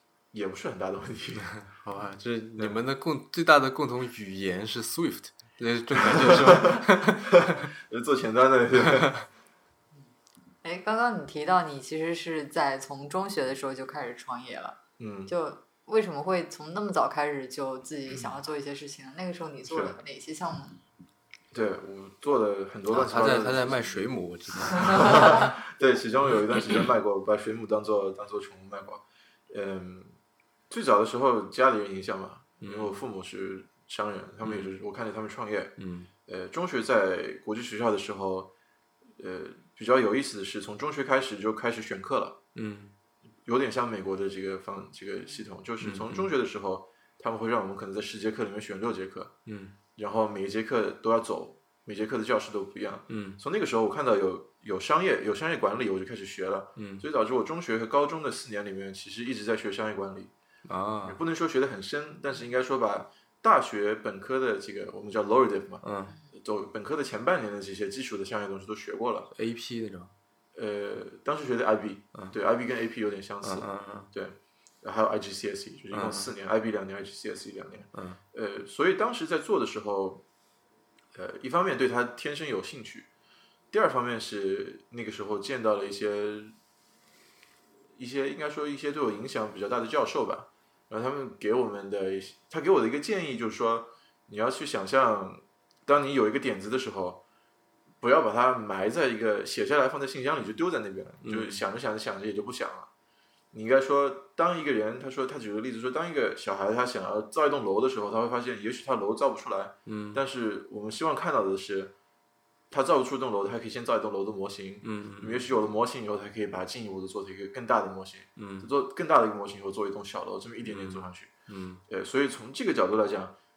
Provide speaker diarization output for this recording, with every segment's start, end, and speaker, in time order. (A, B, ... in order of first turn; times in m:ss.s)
0:00.3-0:01.6 A
0:01.6-0:07.7 B
0:06.0-0:09.2 A
0:10.6-0:20.8 C
0:15.0-0:15.3 A
0:19.6-0:20.0 A
0:21.5-0:24.0 A
0:22.9-0:25.5 B
0:24.7-0:30.2 A
0:30.7-0:35.7 A
0:32.6-0:33.0 B
0:34.4-0:34.7 B
0:35.8-0:36.1 B
0:36.3-0:38.5 A
0:39.2-0:42.4 A
0:42.5-0:42.9 B
0:43.4-0:49.3 A
0:45.8-0:46.3 B
0:49.4-0:49.7 B
0:50.0-1:00.3 A
0:53.1-0:53.4 B
0:56.8-0:57.0 B
1:00.7-1:01.2 B
1:01.0-1:09.3 A
1:05.8-1:06.2 B
1:09.3-1:10.1 B
1:10.5-1:20.2 A
1:13.4-1:14.1 B
1:15.9-1:16.3 B
1:17.9-1:18.2 B
1:21.1-1:23.1 A
1:23.7-1:26.5 A
1:28.0-1:37.2 A
1:38.0-1:42.9 A
1:41.2-1:41.6 B
1:43.5-1:51.9 A
1:49.9-1:50.2 B
1:52.7-2:01.3 A
1:54.8-1:55.4 B
1:58.4-1:58.7 B
2:00.6-2:01.8 B
2:01.9-2:03.3 A